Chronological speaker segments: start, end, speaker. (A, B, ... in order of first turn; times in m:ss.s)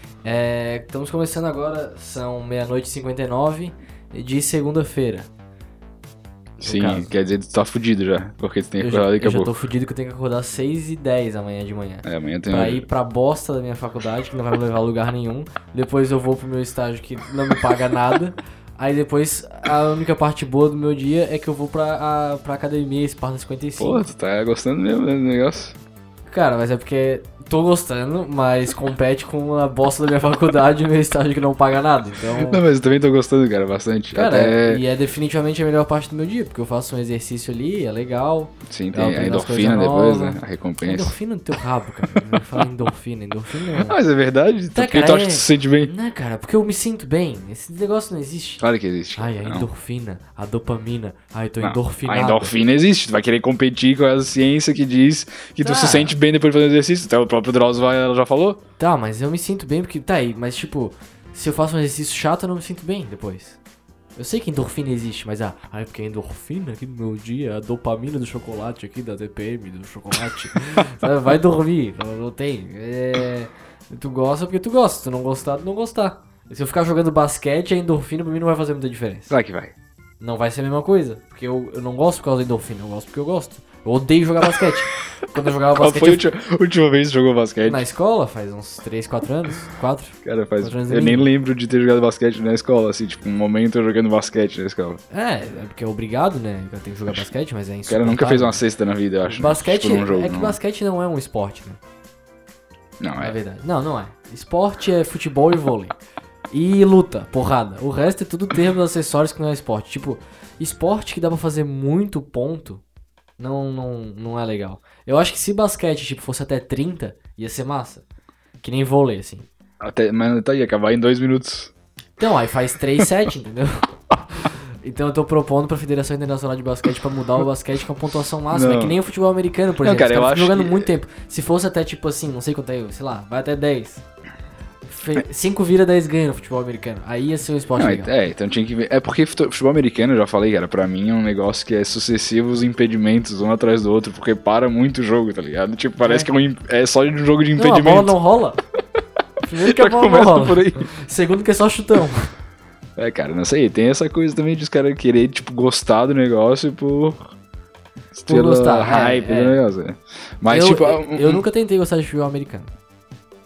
0:00.2-0:05.3 A
0:06.6-0:09.5 B
0:06.6-0:07.1 A
0:08.8-0:24.1 A
0:12.0-0:12.8 B
0:23.8-0:25.8 B
0:26.3-0:32.6 A
0:32.4-0:34.8 B
0:34.1-0:44.0 A
0:38.7-0:41.1 B
0:42.1-0:42.7 B
0:43.7-0:45.9 B
0:44.7-0:48.6 A
0:48.6-0:49.7 B
0:49.2-0:52.5 A
0:51.6-0:58.6 B
0:55.6-0:56.2 A
0:58.8-1:03.6 A
1:04.2-1:19.3 A
1:19.3-1:19.7 B
1:20.2-1:26.2 A
1:25.4-1:27.9 B
1:27.6-1:31.3 A
1:30.2-1:35.0 B
1:35.1-1:38.6 A
1:37.9-1:40.6 B
1:39.3-1:41.8 A
1:43.0-1:43.3 B
1:43.2-1:46.0 A
1:46.5-1:52.8 A
1:53.4-1:58.0 A
1:58.6-1:59.4 A
1:59.8-2:01.7 B
2:02.2-2:14.0 A
2:08.5-2:09.0 B
2:09.8-2:10.9 B
2:14.9-2:18.1 A
2:17.8-2:28.2 B
2:26.0-2:26.3 A
2:27.6-2:28.6 A
2:29.4-2:32.3 A
2:29.6-2:30.9 B
2:33.0-2:37.3 B
2:38.1-2:41.4 B
2:38.2-2:39.6 A
2:40.4-2:42.7 A